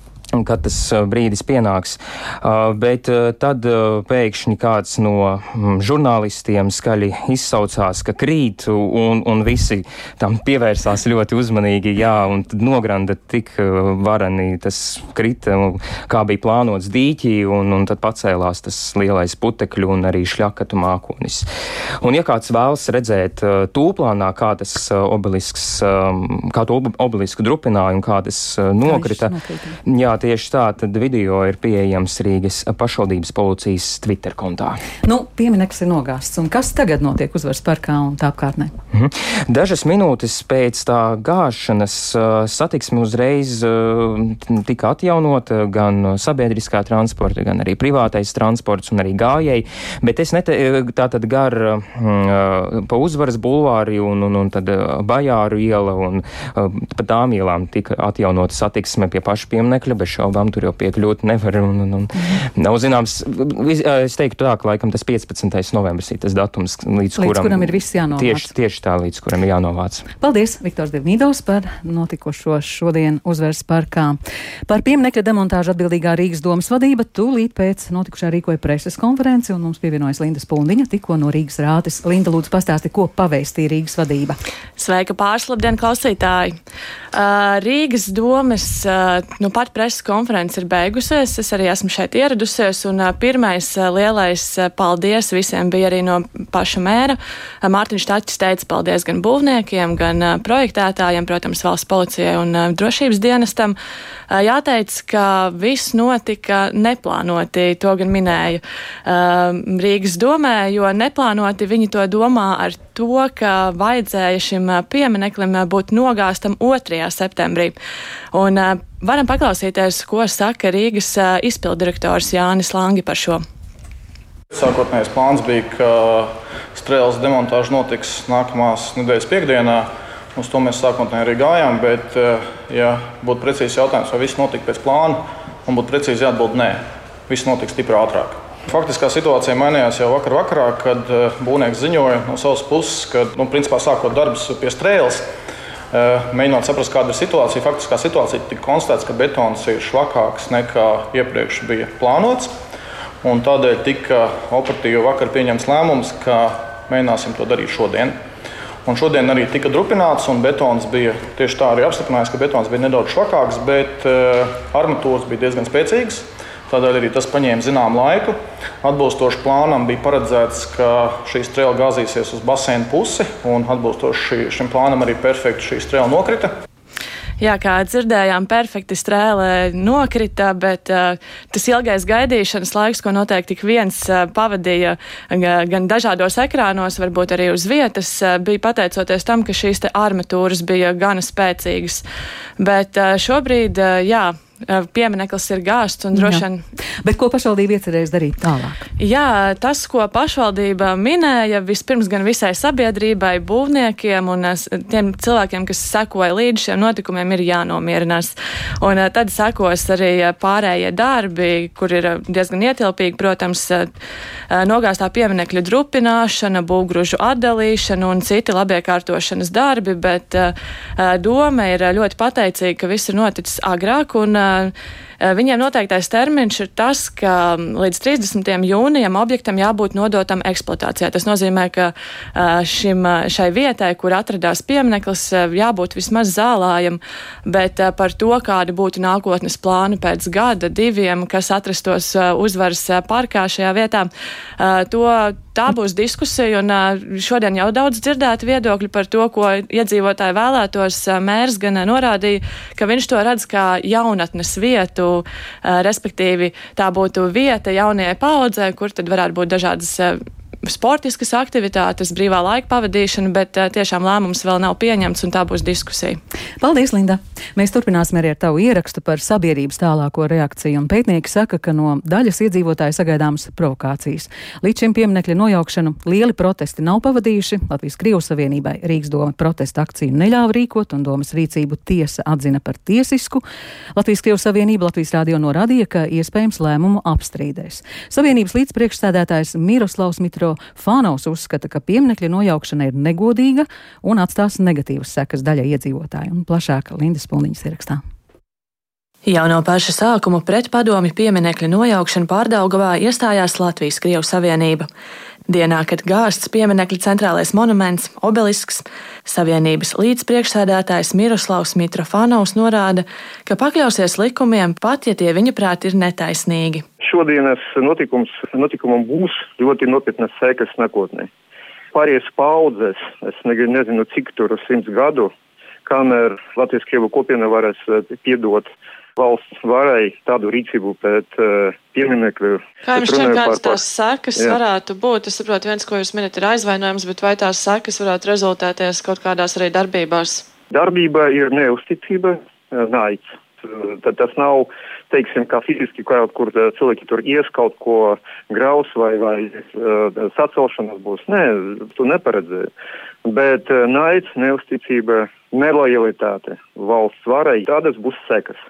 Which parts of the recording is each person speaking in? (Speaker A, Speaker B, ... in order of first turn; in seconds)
Speaker A: 0.3-21.5, 22.0-34.8, 38.9-70.1
Speaker B: 28.8-29.8, 35.0-38.7, 67.2-68.5, 70.2-84.4, 196.2-196.4, 197.0-198.8, 266.6-283.4, 284.0-298.0
Speaker C: 84.8-86.5, 87.1-103.8, 104.3-117.8, 118.3-123.4, 177.4-192.0, 192.6-196.6, 199.0-213.9, 214.5-266.2, 299.3-304.9, 305.5-316.9, 332.8-340.4
Speaker D: 124.5-145.3, 145.9-152.5, 153.2-158.2, 158.9-176.5
Speaker E: 317.0-321.3, 321.9-325.3, 325.9-333.8, 340.7-352.7, 353.3-358.6